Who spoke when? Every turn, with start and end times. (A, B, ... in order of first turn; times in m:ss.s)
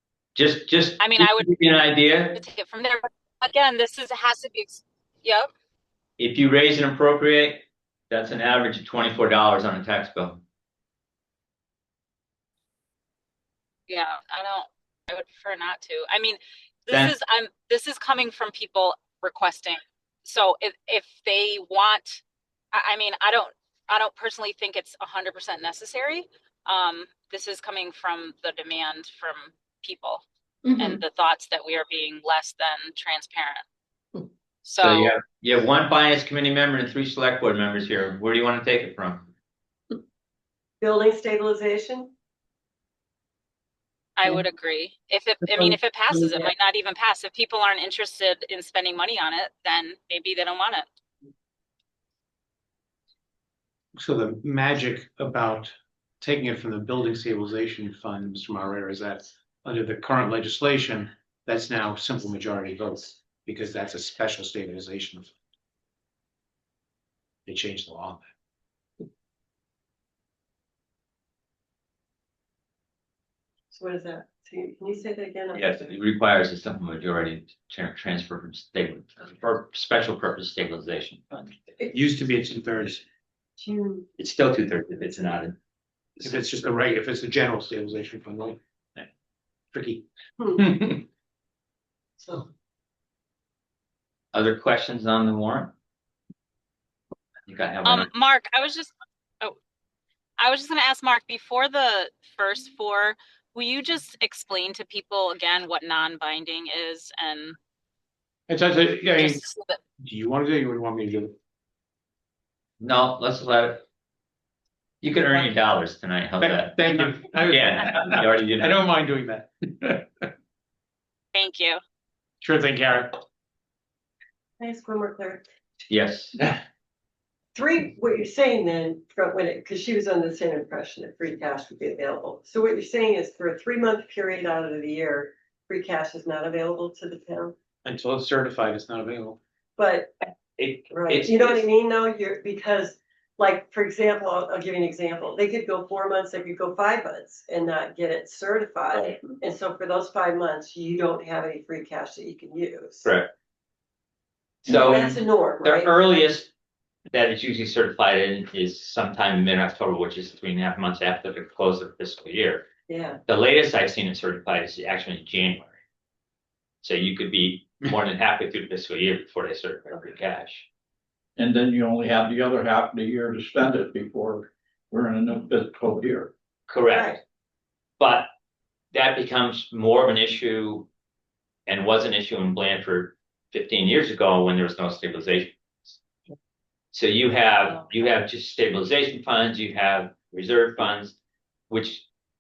0:00.3-0:02.4 A
0:01.0-0:01.5 B
0:02.3-0:05.5 B
0:06.2-0:10.4 A
0:13.9-0:22.2 B
0:22.7-0:33.6 B
0:34.6-0:35.2 B
0:34.8-0:39.3 A
0:40.8-0:42.1 C
0:44.2-0:50.9 B
0:45.5-0:46.5 C
0:54.0-1:05.3 D
1:07.5-1:08.3 D
1:13.7-1:15.9 C
1:15.5-1:21.6 A
1:21.9-1:23.0 D
1:23.6-1:24.1 C
1:24.2-1:25.6 A
1:26.2-1:28.6 D
1:29.7-1:31.0 D
1:32.2-1:32.5 C
1:34.3-1:35.7 A
1:37.5-1:38.1 A
1:37.8-1:39.5 B
1:40.4-1:47.6 B
1:48.5-1:49.4 D
1:49.2-1:49.8 B
1:50.0-1:51.3 D
1:52.8-1:53.8 A
1:55.0-1:58.8 A
1:56.4-2:00.2 D
2:01.3-2:01.8 B
2:02.4-2:03.2 D
2:04.6-2:05.4 C
2:05.9-2:06.3 A
2:07.5-2:17.5 C
2:17.8-2:19.4 D
2:19.8-2:20.2 C
2:20.2-2:21.6 A
2:20.9-2:33.1 C
2:28.9-2:29.2 A
2:33.0-2:33.3 A
2:34.6-2:36.5 A
2:34.6-2:36.3 C
2:37.1-2:42.7 A
2:42.9-2:43.2 C
2:43.2-2:45.8 A
2:46.8-2:50.7 A
2:51.4-2:56.3 E
2:56.7-2:57.2 A
2:56.9-2:57.2 C
2:58.0-2:58.3 A
2:58.9-3:00.9 A
3:01.7-3:05.6 A
3:06.9-3:11.2 A
3:11.7-3:12.0 A